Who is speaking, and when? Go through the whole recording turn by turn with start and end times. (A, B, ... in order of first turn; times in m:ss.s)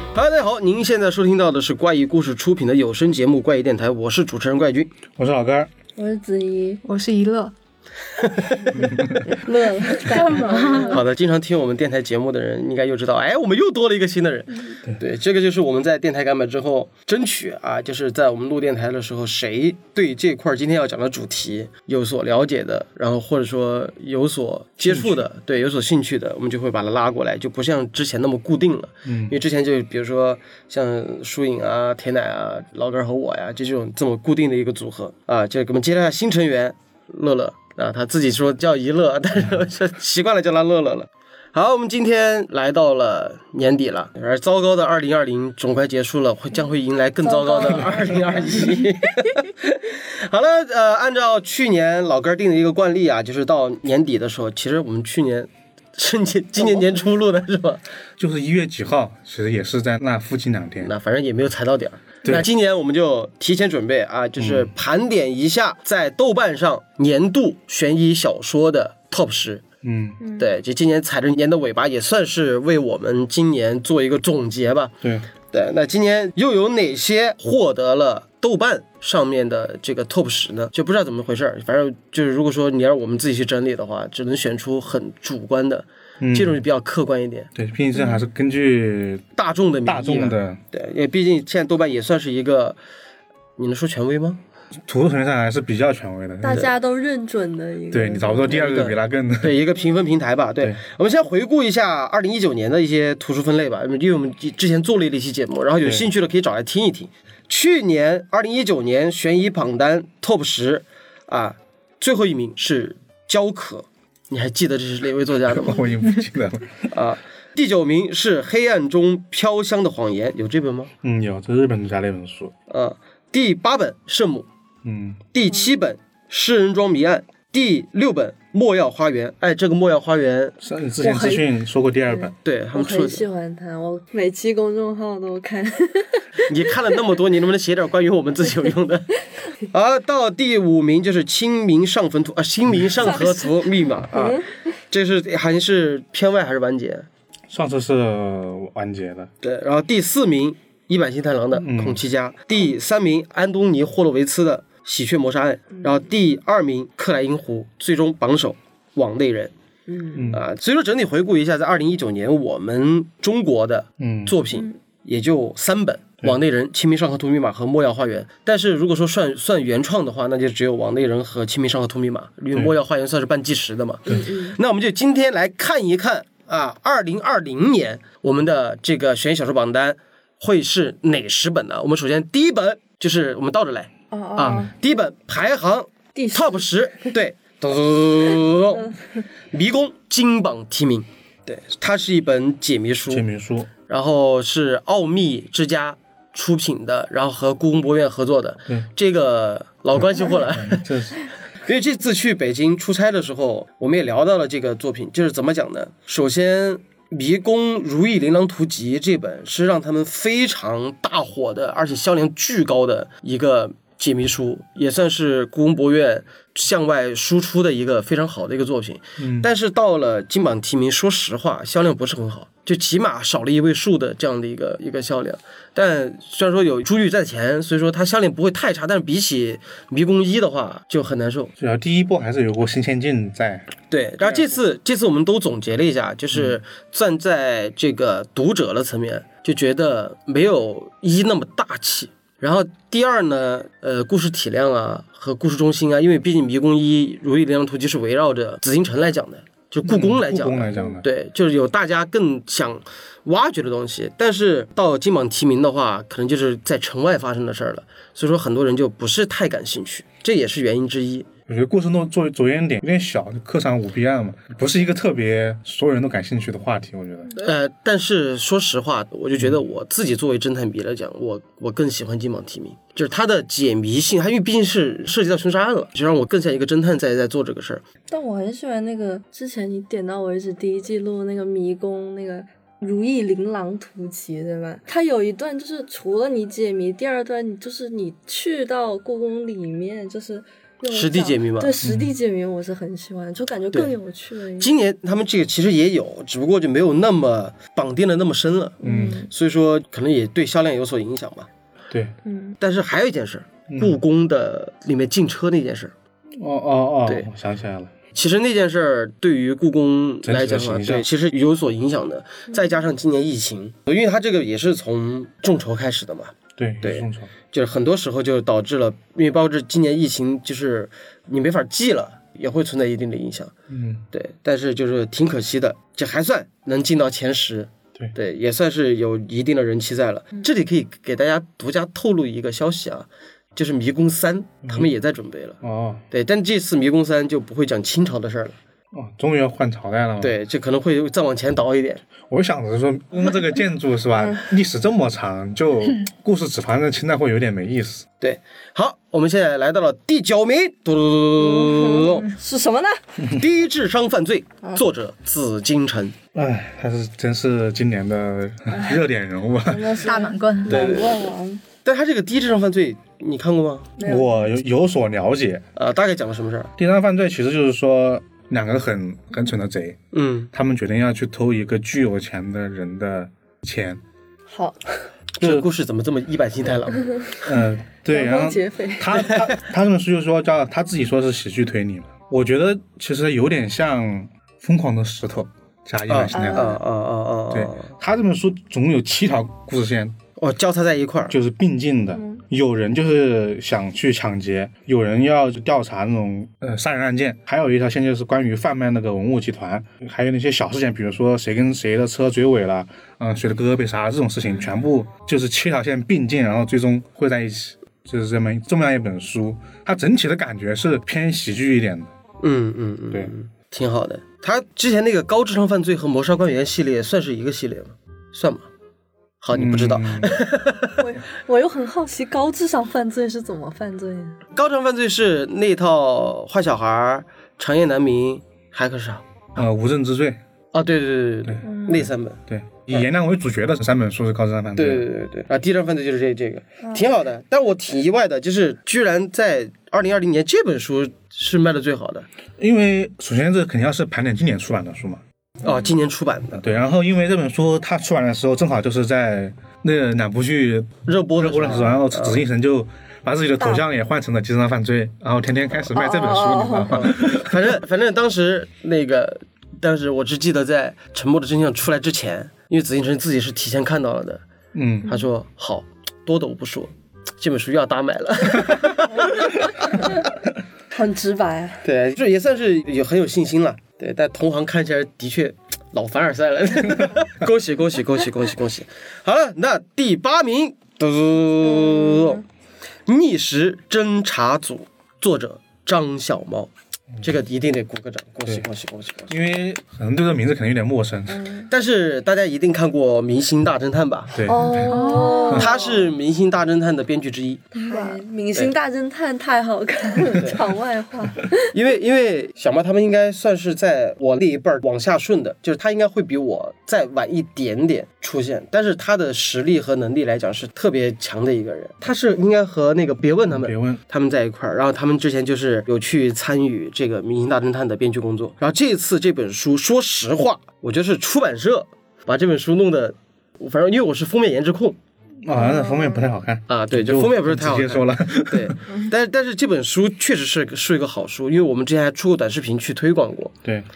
0:00.2-0:04.9 A
0:05.2-0:05.7 B
0:06.0-0:06.8 C
0:06.8-0:07.5 D
0:08.3-0:08.5 A
0:08.8-0:09.3 B
0:09.3-0:11.0 C
0:10.1-0:11.0 D
0:10.8-0:57.8 A
0:24.8-0:25.2 B
0:29.0-0:29.4 B
0:47.2-0:48.8 C
0:58.2-1:00.9 B
1:00.8-1:09.6 A
1:04.4-1:04.7 B
1:09.8-1:10.2 B
1:10.2-1:10.5 C
1:10.4-1:15.0 A
1:15.5-1:27.5 A
1:26.2-1:26.6 B
1:27.6-1:29.3 B
1:29.4-1:32.8 A
1:29.8-1:30.6 B
1:33.6-1:34.4 A
1:34.9-1:36.7 B
1:36.4-1:38.6 C
1:37.9-1:39.6 B
1:38.5-1:55.8 A
1:45.8-1:46.1 B
1:55.5-1:56.9 B
1:56.9-2:00.9 A
2:01.0-2:02.5 B
2:02.7-2:04.5 A
2:04.8-2:05.2 B
2:05.3-2:10.6 A
2:10.6-2:12.3 B
2:11.0-2:11.5 C
2:12.1-2:16.4 C
2:12.4-2:13.3 A
2:16.4-2:19.1 A
2:19.6-2:27.1 A
2:23.1-2:24.4 C
2:27.5-2:29.3 B
2:29.4-2:39.5 A
2:31.6-2:32.0 B
2:39.9-2:40.3 C
2:40.2-2:40.4 B
2:40.3-3:08.9 A
2:44.0-2:44.4 B
2:54.1-2:54.6 C
3:04.1-3:04.7 C
3:06.2-3:06.7 C
3:09.5-3:13.2 A
3:13.1-3:13.7 B
3:13.9-3:20.9 A
3:20.0-3:21.3 B
3:21.6-3:51.5 A
3:39.2-3:39.5 B
3:51.6-3:53.7 B
3:53.9-4:21.3 A
4:09.8-4:11.1 B
4:21.5-4:27.4 B
4:27.4-4:37.8 A
4:38.1-4:54.7 C
4:50.9-4:51.8 A
4:51.8-4:52.1 B
4:54.6-5:01.5 A
4:58.8-4:59.2 B
4:58.8-4:59.3 C
5:02.3-5:02.6 C
5:02.6-5:05.9 A
5:03.7-5:04.0 B
5:06.4-5:07.9 B
5:08.1-5:23.5 A
5:10.2-5:11.1 B
5:16.6-5:17.3 B
5:23.7-5:24.0 B
5:24.1-5:38.6 A
5:34.6-5:34.9 B
5:35.6-5:36.0 B
5:38.9-5:40.4 B
5:40.2-5:42.0 A
5:42.3-5:48.1 B
5:48.2-5:52.3 A
5:51.4-5:53.0 C
5:53.3-5:56.2 A
5:56.4-6:00.0 B
5:59.6-6:01.6 C
6:00.0-6:00.9 D
6:00.7-6:01.3 A
6:01.8-6:03.9 A
6:04.0-6:04.5 C
6:04.0-6:05.6 B
6:05.8-6:06.7 A
6:06.8-6:10.0 B
6:10.1-6:10.5 A
6:10.5-6:14.0 B
6:14.5-6:15.0 C
6:15.4-6:17.3 A
6:15.4-6:15.7 B
6:17.4-6:26.8 B
6:18.1-6:19.2 C
6:26.1-6:27.9 A
6:26.3-6:26.8 C
6:27.5-6:30.2 B
6:30.4-6:31.4 A
6:31.3-6:52.1 B
6:32.2-6:32.4 C
6:52.4-6:58.7 A
6:59.4-7:01.0 A
6:59.5-7:00.4 B
7:01.0-7:04.4 C
7:04.6-7:09.2 A
7:09.6-7:10.4 B
7:10.7-7:13.1 A
7:11.4-7:15.1 B
7:11.6-7:12.0 C
7:14.8-7:22.3 A
7:22.6-7:25.2 B
7:25.6-7:26.6 A
7:26.5-7:37.8 B
7:31.1-7:32.4 A
7:35.9-7:37.0 C
7:36.9-7:44.4 A
7:44.7-7:45.1 B
7:45.0-7:50.0 A
7:50.9-7:51.8 C
7:51.8-8:02.4 A
8:01.7-8:02.4 C
8:03.1-8:06.7 A
8:07.2-8:09.3 A
8:09.3-8:11.5 B
8:11.3-8:11.7 C
8:11.7-8:14.4 A
8:14.3-8:15.0 B
8:14.4-8:16.1 C
8:14.8-8:15.7 D
8:15.5-8:15.7 B
8:15.5-8:17.7 A
8:17.7-8:21.6 C
8:17.8-8:18.2 D
8:20.4-8:20.6 A
8:21.6-8:45.0 A
8:33.5-8:34.0 B
8:45.4-8:48.8 B
8:45.6-8:46.2 C
8:46.7-8:53.5 A